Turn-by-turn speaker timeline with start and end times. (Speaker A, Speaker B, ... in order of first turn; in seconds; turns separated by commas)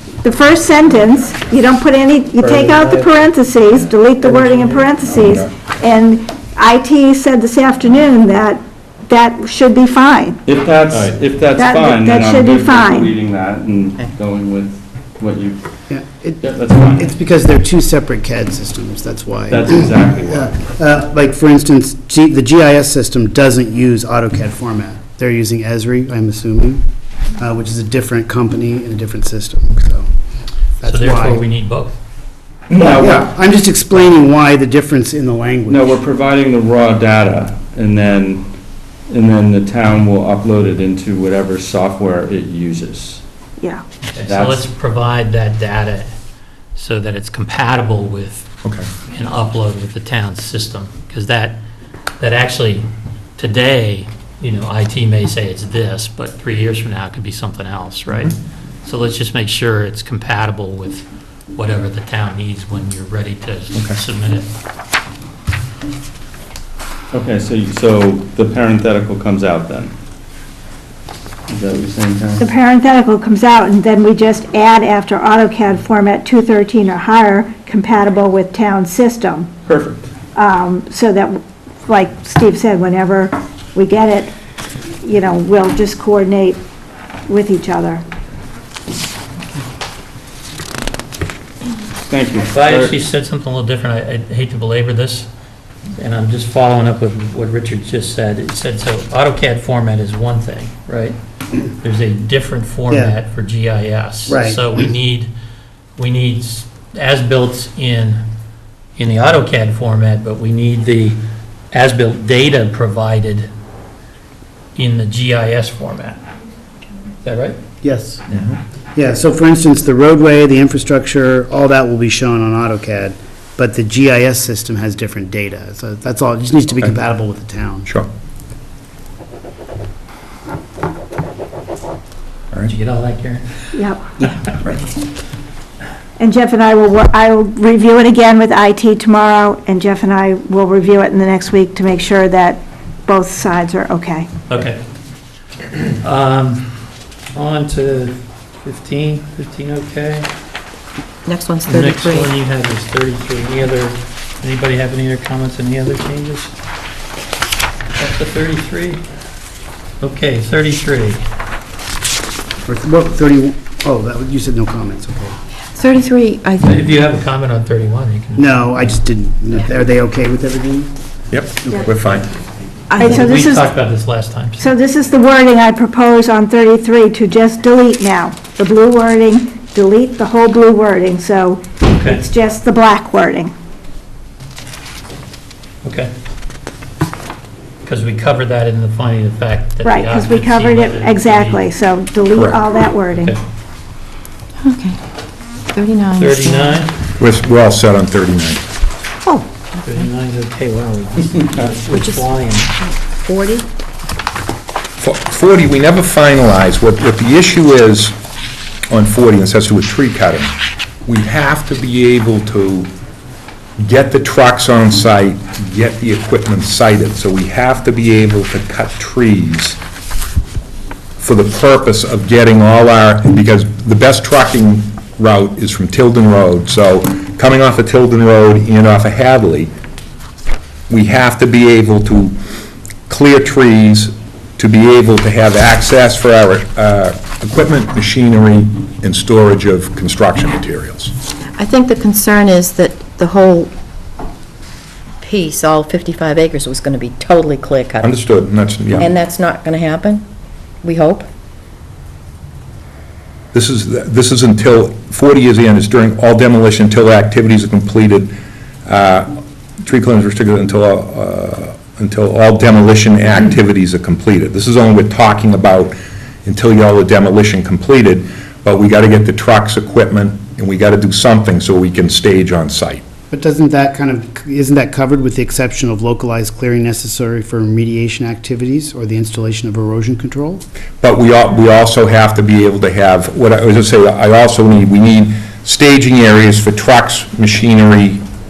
Speaker A: 0.2-10.4, Speaker B: 2.4-4.9, Speaker C: 10.4-15.6, Speaker A: 11.6-13.1, Speaker D: 15.9-26.8, Speaker C: 16.4-17.1, Speaker C: 19.5-20.5, Speaker D: 27.4-30.1, Speaker D: 30.8-31.4, Speaker B: 30.8-32.0, Speaker C: 32.7-33.3, Speaker D: 32.8-36.0, Speaker C: 35.7-38.5, Speaker C: 39.1-43.2, Speaker A: 43.6-43.8, Speaker B: 44.1-46.1, Speaker C: 44.2-44.7, Speaker B: 46.7-48.5, Speaker B: 49.1-51.6, Speaker B: 52.2-52.9, Speaker B: 53.4-64.5, Speaker E: 63.7-64.0, Speaker C: 67.1-69.9, Speaker C: 71.5-72.5, Speaker A: 72.4-79.5, Speaker C: 79.7-80.1, Speaker A: 80.3-84.3, Speaker A: 85.0-86.6, Speaker A: 87.3-88.0, Speaker C: 92.1-92.9, Speaker B: 92.5-95.3, Speaker B: 96.0-101.2, Speaker B: 101.7-105.3, Speaker D: 102.9-103.1, Speaker D: 104.3-104.9, Speaker B: 106.0-108.2, Speaker B: 109.0-111.2, Speaker B: 111.7-113.5, Speaker B: 114.7-116.2, Speaker B: 117.2-117.6, Speaker D: 117.8-118.2, Speaker E: 118.3-118.6, Speaker D: 118.9-127.9, Speaker B: 132.7-133.4, Speaker A: 133.7-134.0, Speaker A: 136.2-144.3, Speaker B: 144.5-144.8, Speaker B: 146.0-150.3, Speaker F: 151.2-152.3, Speaker B: 151.7-156.5, Speaker B: 158.0-159.0, Speaker B: 160.0-161.2, Speaker D: 162.6-165.4, Speaker F: 165.7-166.8, Speaker B: 166.6-168.7, Speaker D: 168.4-170.9, Speaker E: 171.3-172.3, Speaker F: 172.9-173.2, Speaker A: 172.9-173.7, Speaker B: 173.0-174.7, Speaker A: 174.6-183.5, Speaker B: 181.8-182.2, Speaker B: 185.8-186.1, Speaker B: 187.8-191.7, Speaker A: 189.8-193.3, Speaker E: 192.3-192.6, Speaker B: 193.1-193.4, Speaker F: 194.6-195.0, Speaker F: 195.7-196.8, Speaker B: 196.2-196.9, Speaker E: 197.2-198.7, Speaker F: 199.2-200.1, Speaker B: 199.8-202.7, Speaker F: 201.9-203.7, Speaker E: 205.0-208.2, Speaker E: 208.9-212.9, Speaker E: 213.8-219.8, Speaker E: 221.2-229.7, Speaker E: 230.9-232.3, Speaker E: 233.1-241.1, Speaker F: 241.6-243.7, Speaker F: 245.2-248.1, Speaker E: 248.0-249.1, Speaker F: 249.0-250.2, Speaker F: 250.8-251.3, Speaker E: 253.5-258.3, Speaker E: 258.9-273.0, Speaker D: 273.3-280.6, Speaker E: 281.0-288.2